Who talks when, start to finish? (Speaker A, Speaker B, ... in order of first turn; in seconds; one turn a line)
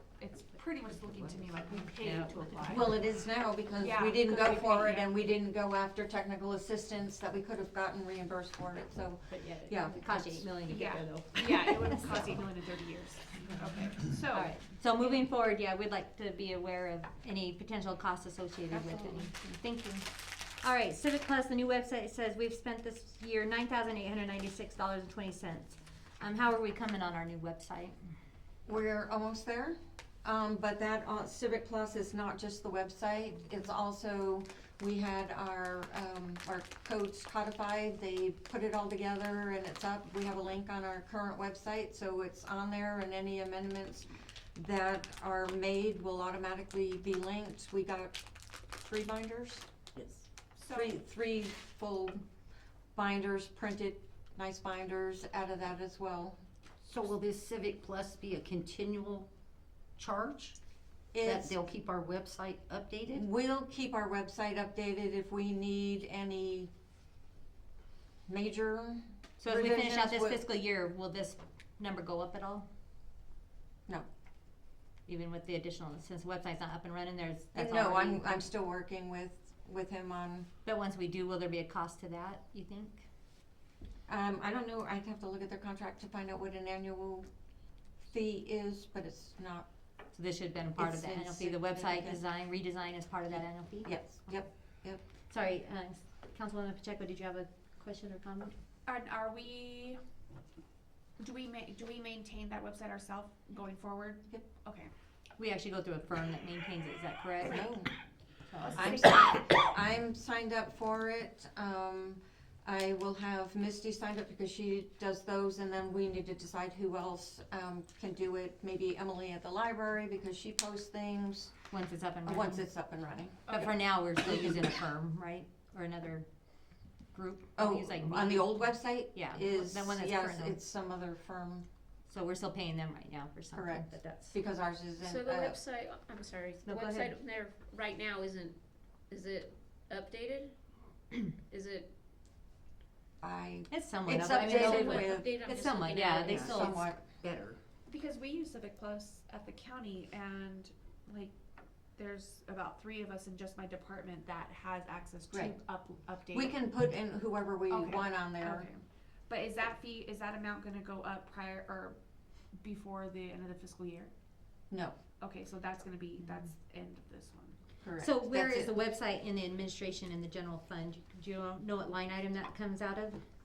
Speaker A: 0.2-3.0
Speaker B: 2.0-2.4
Speaker C: 2.7-10.5
Speaker A: 3.8-5.1
Speaker B: 9.3-12.2
Speaker A: 10.6-15.3
Speaker B: 13.4-20.0
Speaker C: 18.8-19.4
Speaker B: 20.6-27.9
Speaker C: 28.7-48.2
Speaker C: 48.7-49.7
Speaker A: 50.6-51.0
Speaker C: 50.6-52.2
Speaker C: 52.9-56.4
Speaker D: 56.8-59.3
Speaker D: 60.0-60.6
Speaker C: 61.1-61.6
Speaker D: 61.2-63.2
Speaker C: 63.1-66.7
Speaker C: 68.3-70.4
Speaker B: 69.4-72.7
Speaker B: 75.1-78.4
Speaker C: 77.5-80.5
Speaker B: 80.6-83.0
Speaker C: 84.1-87.3
Speaker C: 88.1-89.7
Speaker B: 90.1-94.3
Speaker C: 90.8-92.2
Speaker C: 93.8-95.0
Speaker B: 95.3-98.5
Speaker A: 98.8-100.0
Speaker A: 101.2-104.9
Speaker B: 105.4-107.7
Speaker C: 107.4-107.9
Speaker B: 108.5-109.0
Speaker A: 108.6-109.4
Speaker C: 108.7-121.5
Speaker B: 121.7-122.6
Speaker C: 122.2-124.7
Speaker B: 123.5-126.2
Speaker B: 127.1-130.6
Speaker C: 127.6-131.6
Speaker B: 132.1-134.3
Speaker C: 133.5-135.6
Speaker E: 135.0-138.6
Speaker B: 136.6-137.2
Speaker E: 139.1-140.6
Speaker E: 141.2-141.9
Speaker C: 143.2-145.4
Speaker B: 143.7-146.9
Speaker E: 144.3-146.7
Speaker D: 146.2-147.6
Speaker C: 146.4-147.0
Speaker A: 147.9-151.3
Speaker A: 151.9-156.6
Speaker C: 155.3-155.6
Speaker C: 156.3-158.7
Speaker A: 157.7-162.0
Speaker A: 162.6-164.1
Speaker C: 164.7-164.9
Speaker A: 165.2-167.6
Speaker C: 167.8-168.7
Speaker B: 168.0-173.2